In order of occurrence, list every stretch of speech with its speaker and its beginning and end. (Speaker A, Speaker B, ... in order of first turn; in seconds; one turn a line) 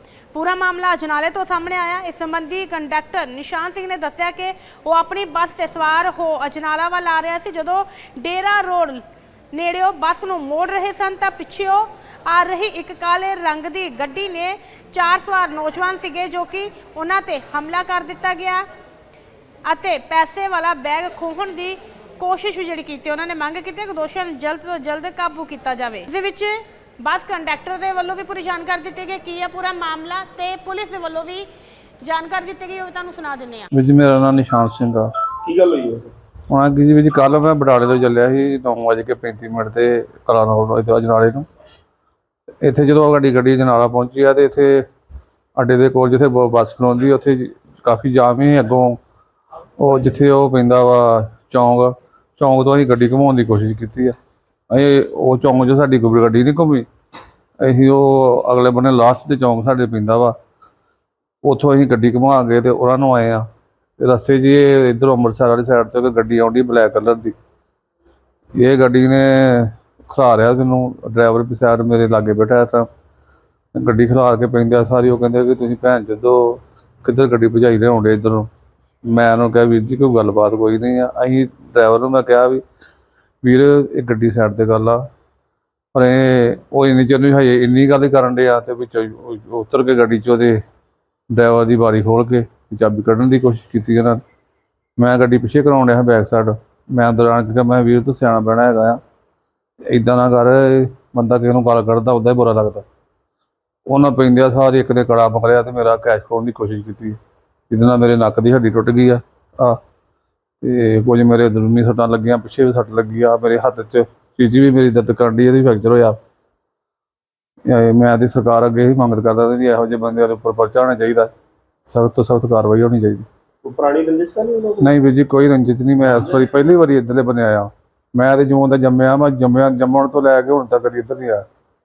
Speaker A: 0.3-9.0
Speaker A: 9.5-18.6
Speaker A: 19.6-31.4
Speaker A: 32.0-33.7
Speaker B: 33.7-35.1
Speaker C: 35.4-36.1
Speaker B: 36.5-41.5
Speaker B: 42.6-44.8
Speaker B: 45.5-49.0
Speaker B: 49.8-54.1
Speaker B: 54.7-56.9
Speaker B: 57.6-60.4
Speaker B: 61.4-63.5
Speaker B: 64.0-67.3
Speaker B: 68.6-72.9
Speaker B: 73.7-78.5
Speaker B: 79.1-82.6
Speaker B: 83.4-85.0
Speaker B: 85.9-90.6
Speaker B: 91.3-94.2
Speaker B: 95.0-99.0
Speaker B: 99.9-102.8
Speaker B: 103.9-107.2
Speaker B: 107.7-109.8
Speaker B: 110.6-116.2
Speaker B: 117.7-121.3
Speaker B: 121.9-123.2
Speaker C: 123.6-124.9
Speaker B: 124.8-131.4